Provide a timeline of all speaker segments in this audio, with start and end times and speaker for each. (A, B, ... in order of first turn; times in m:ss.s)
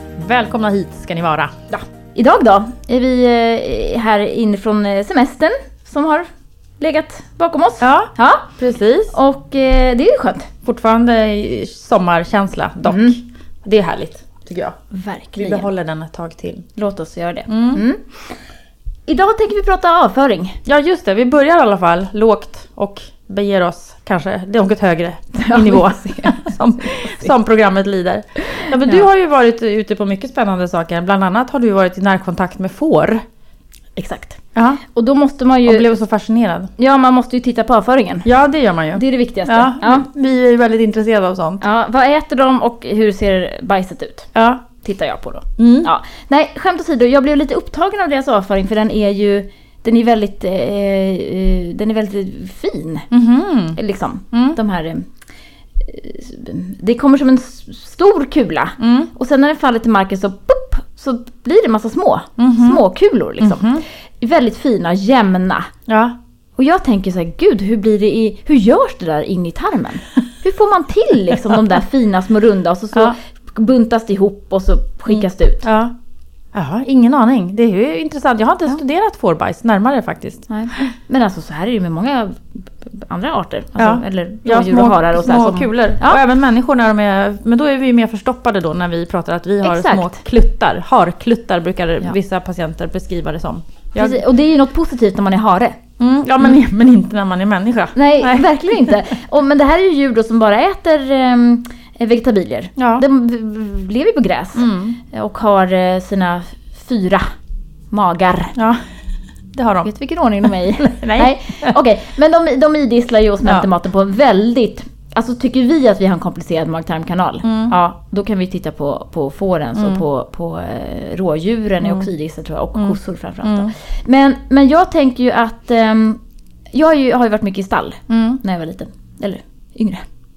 0:00.2-0:01.5 A
0:01.7-0:06.3 B
0:06.8-0:08.5 B
0:07.8-0:09.2 A
0:09.1-0:10.5 B
0:10.6-0:14.8 A
0:12.9-0:13.2 B
0:14.9-0:15.7 B
0:15.4-0:16.7 A
0:16.8-0:18.4 B
0:17.5-0:17.8 A
0:19.1-0:20.6 B
0:20.6-0:33.2 A
0:25.4-0:27.3 B
0:28.5-0:29.0 B
0:34.0-0:35.9 B
0:34.6-0:34.8 A
0:35.7-0:36.7 A
0:36.8-0:38.3 B
0:38.2-0:41.6 A
0:39.0-0:40.1 B
0:41.6-0:53.1 B
0:44.3-0:44.6 A
0:45.6-0:45.9 A
0:53.1-0:53.8 A
0:53.7-0:55.1 B
0:54.3-0:54.6 A
0:55.8-1:05.7 B
0:58.8-0:59.1 A
1:02.4-1:02.8 A
1:03.4-1:03.8 A
1:05.9-1:06.2 A
1:06.6-1:15.7 B
1:15.1-1:15.9 A
1:16.5-1:20.9 A
1:20.5-1:26.2 B
1:23.8-1:34.2 A
1:29.6-1:30.1 B
1:34.0-1:35.8 B
1:36.0-1:38.9 A
1:37.9-1:47.2 B
1:42.8-1:43.0 A
1:44.6-1:45.0 A
1:47.9-1:48.6 B
1:48.6-1:48.8 A
1:49.5-1:49.9 A
1:49.8-2:06.2 B
1:50.4-1:51.8 A
1:57.4-1:57.7 A
1:59.8-2:00.0 A
2:01.8-2:02.1 A
2:02.8-2:03.7 A
2:06.7-2:10.0 B
2:08.1-2:08.4 A